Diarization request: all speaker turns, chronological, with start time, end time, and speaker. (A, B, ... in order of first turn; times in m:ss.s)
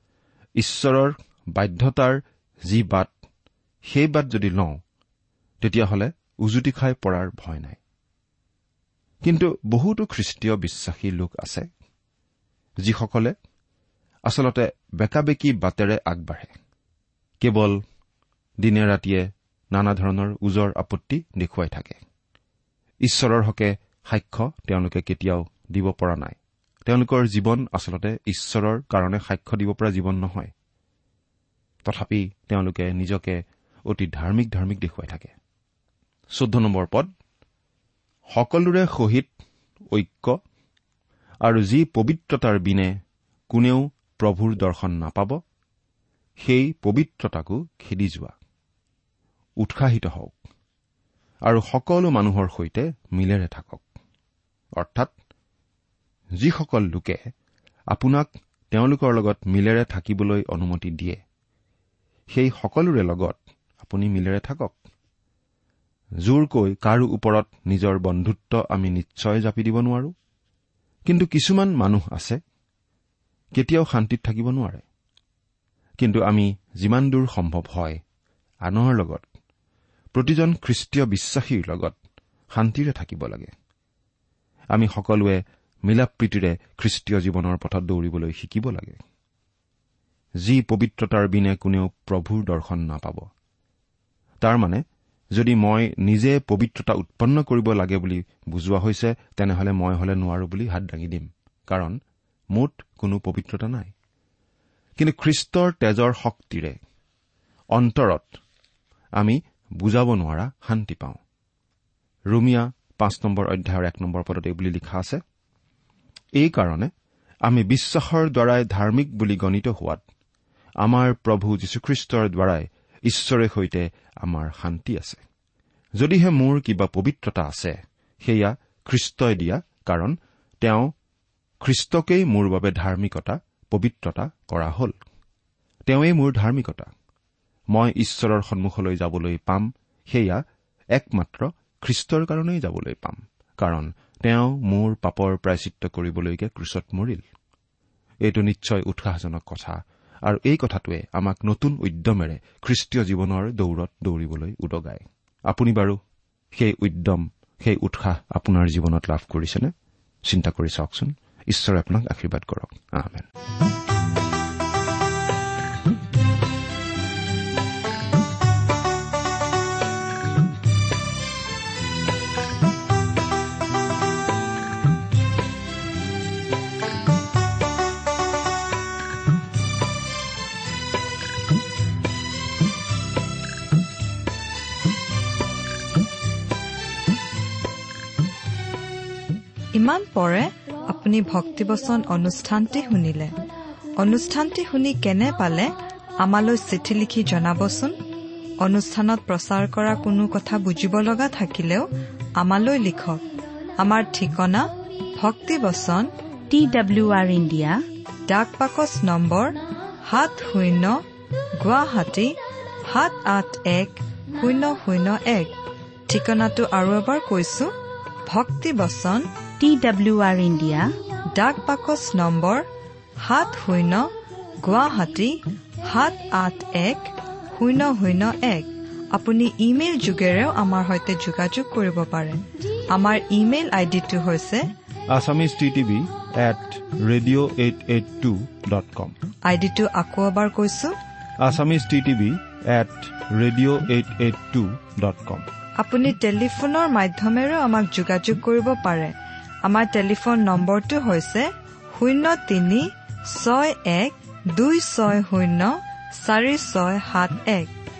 0:00.6-0:03.1 A
0:03.8-0:04.8 A
0:05.6-0:07.8 A
0:09.2-0:11.7 A
0:12.8-0:13.3 A
0:14.3-0:16.5 A
0:17.4-0:17.8 A
0:18.6-0:22.0 A
0:23.0-0:30.5 A
0:31.8-0:35.3 A
0:36.3-0:37.1 A
0:38.3-0:39.3 A
0:39.9-0:40.4 A
0:41.4-0:42.9 A
0:43.5-0:45.4 A
0:46.4-0:48.3 A
0:49.6-0:50.4 A
0:51.4-0:53.8 A
0:54.8-0:55.1 A
0:56.4-0:57.3 A
0:57.9-1:01.2 A
1:02.3-1:04.8 A
1:06.2-1:10.1 A
1:11.1-1:12.4 A
1:13.6-1:14.8 A
1:16.0-1:18.0 A
1:18.6-1:19.3 A
1:20.1-1:22.0 A
1:22.5-1:23.5 A
1:24.7-1:29.0 A
1:30.4-1:33.3 A
1:34.4-1:34.8 A
1:35.3-1:42.0 A
1:42.5-1:43.9 A
1:45.0-1:46.8 A
1:47.7-1:48.4 A
1:49.2-1:51.2 A
1:52.3-1:55.2 A
1:56.4-1:56.9 A
1:57.4-2:00.0 A
2:00.8-2:05.2 A
2:06.0-2:10.9 A
2:11.6-2:14.9 A
2:15.9-2:16.9 A
2:17.7-2:20.4 A
2:20.9-2:27.2 A
2:28.2-2:36.0 A
2:36.5-2:39.7 A
2:40.2-2:43.3 A
3:09.7-3:13.4 B
3:14.0-3:18.0 B
3:18.6-3:26.1 B
3:26.5-3:27.8 C
3:28.3-3:31.0 B
3:31.6-3:35.5 B
3:36.1-3:37.7 B
3:38.2-3:39.3 B
3:39.6-3:41.0 C
3:41.3-3:42.6 B
3:43.2-3:54.7 B
3:55.1-3:59.2 A
3:59.4-4:00.9 B
4:01.4-4:05.5 A
4:05.8-4:17.7 B